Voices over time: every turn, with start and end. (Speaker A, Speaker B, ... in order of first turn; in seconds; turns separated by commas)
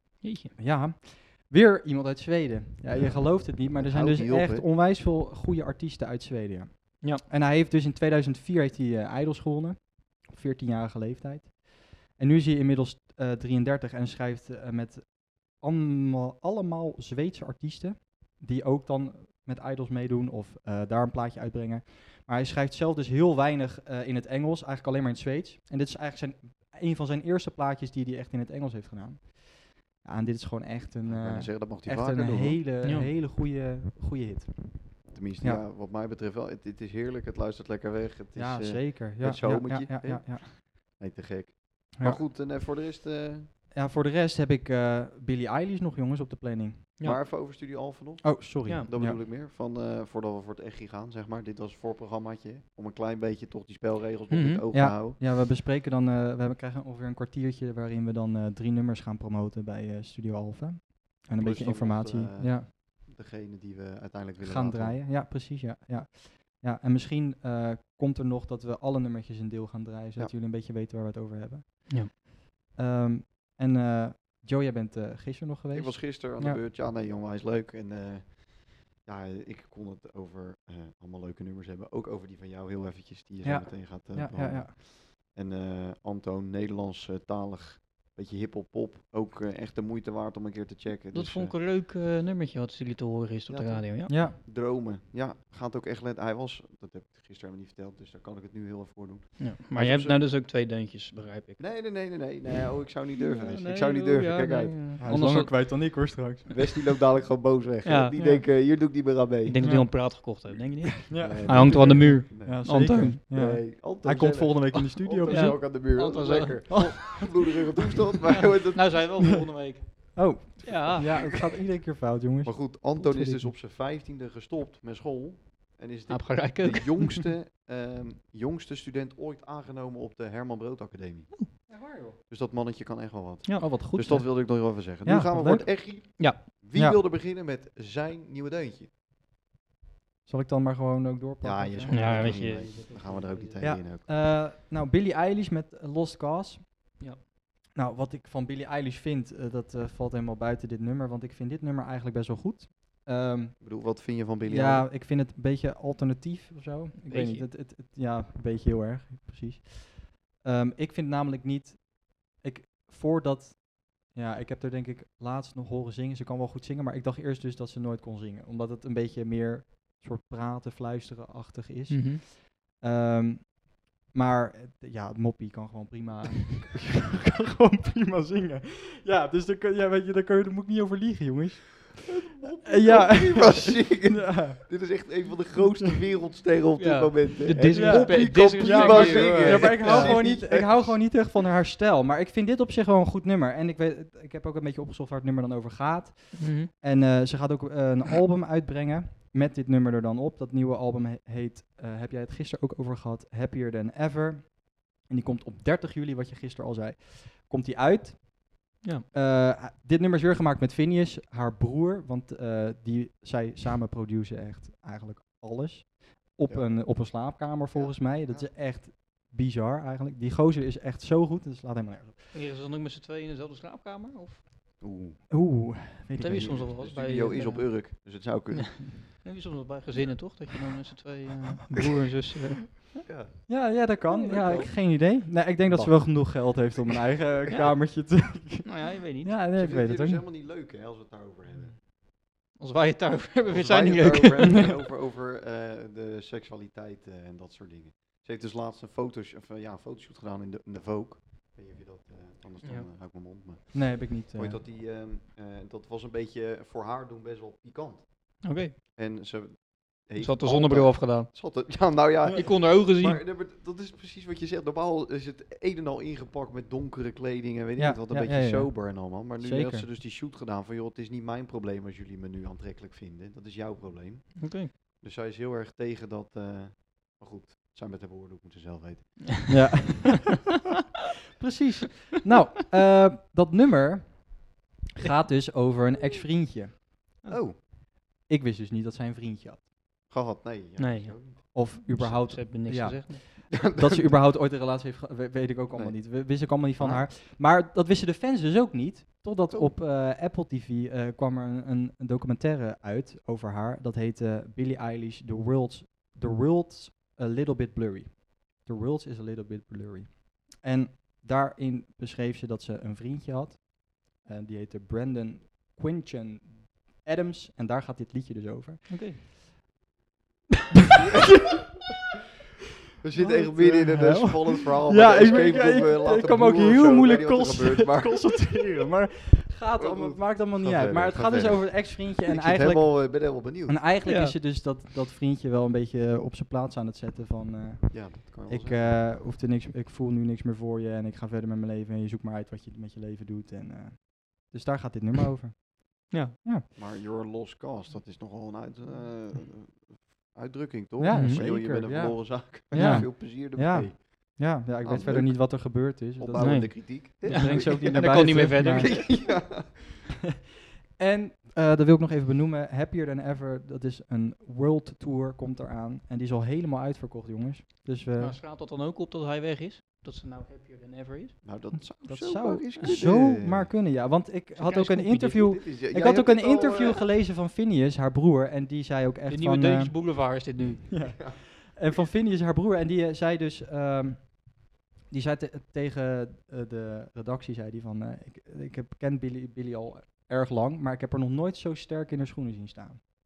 Speaker A: 0.2-0.5, Speaker B: 0.6-35.6, Speaker C: 2.9-4.7, Speaker C: 31.1-32.6, Speaker A: 32.8-33.1, Speaker C: 35.1-43.5, Speaker B: 38.4-40.5, Speaker B: 42.0-42.2, Speaker B: 43.7-46.9, Speaker C: 47.0-55.2, Speaker B: 48.2-49.2, Speaker A: 54.3-54.7, Speaker B: 54.7-62.7, Speaker C: 61.4-65.0, Speaker B: 64.4-72.2, Speaker B: 72.8-76.6, Speaker C: 75.7-91.5, Speaker B: 83.4-84.7, Speaker A: 91.1-94.1, Speaker C: 93.5-100.2, Speaker B: 94.1-94.4, Speaker A: 99.4-102.3, Speaker C: 101.6-105.2, Speaker A: 103.2-105.5, Speaker B: 105.0-106.7, Speaker C: 106.5-109.8, Speaker A: 107.8-108.2, Speaker B: 108.2-108.4, Speaker A: 109.5-113.2, Speaker B: 109.6-110.2, Speaker B: 111.1-115.7, Speaker C: 111.1-119.2, Speaker A: 115.3-117.3, Speaker B: 116.7-117.0, Speaker A: 118.3-121.4, Speaker B: 120.2-123.5, Speaker C: 122.4-131.7, Speaker A: 126.1-127.3, Speaker B: 131.7-132.2, Speaker C: 132.3-138.9, Speaker B: 133.6-137.0, Speaker B: 140.3-142.5, Speaker C: 141.4-144.1, Speaker A: 141.9-143.6, Speaker B: 143.6-147.1, Speaker B: 147.8-182.1, Speaker C: 153.6-154.9, Speaker A: 157.1-157.5, Speaker A: 171.9-172.2, Speaker C: 182.4-191.1, Speaker B: 182.7-185.3, Speaker A: 186.8-190.3, Speaker B: 187.7-222.3, Speaker A: 196.4-196.7, Speaker C: 216.5-217.2, Speaker C: 217.7-218.5, Speaker A: 222.3-224.4, Speaker C: 224.8-225.3, Speaker B: 225.3-226.7, Speaker A: 226.2-232.8, Speaker C: 226.3-229.1, Speaker C: 233.1-233.5, Speaker B: 233.5-240.2, Speaker A: 234.1-234.7, Speaker C: 234.5-235.0, Speaker C: 235.7-236.7, Speaker A: 237.5-238.0, Speaker A: 238.6-239.3, Speaker C: 239.5-241.8, Speaker A: 242.6-244.7, Speaker C: 243.5-279.6, Speaker B: 253.7-254.6, Speaker A: 258.4-258.7, Speaker A: 260.2-263.2, Speaker B: 267.8-269.9, Speaker A: 274.4-274.7, Speaker B: 279.5-280.4, Speaker B: 281.4-286.8, Speaker C: 287.3-287.6, Speaker B: 288.2-289.7, Speaker C: 290.1-291.9, Speaker A: 290.8-293.2, Speaker B: 291.5-319.1, Speaker C: 293.5-294.2, Speaker C: 295.7-297.1, Speaker A: 318.9-319.2, Speaker C: 323.0-328.6, Speaker B: 323.1-346.7, Speaker C: 329.8-333.8, Speaker A: 334.1-334.4, Speaker C: 337.9-339.1, Speaker A: 346.1-346.4, Speaker C: 346.8-359.8, Speaker B: 351.0-359.6, Speaker A: 351.1-351.4, Speaker A: 352.7-353.1, Speaker A: 356.4-359.1, Speaker B: 361.0-368.4, Speaker A: 368.2-371.4, Speaker C: 371.4-373.7, Speaker B: 371.7-393.0, Speaker A: 372.8-373.1, Speaker A: 374.6-375.5, Speaker C: 375.3-377.0, Speaker A: 379.3-381.1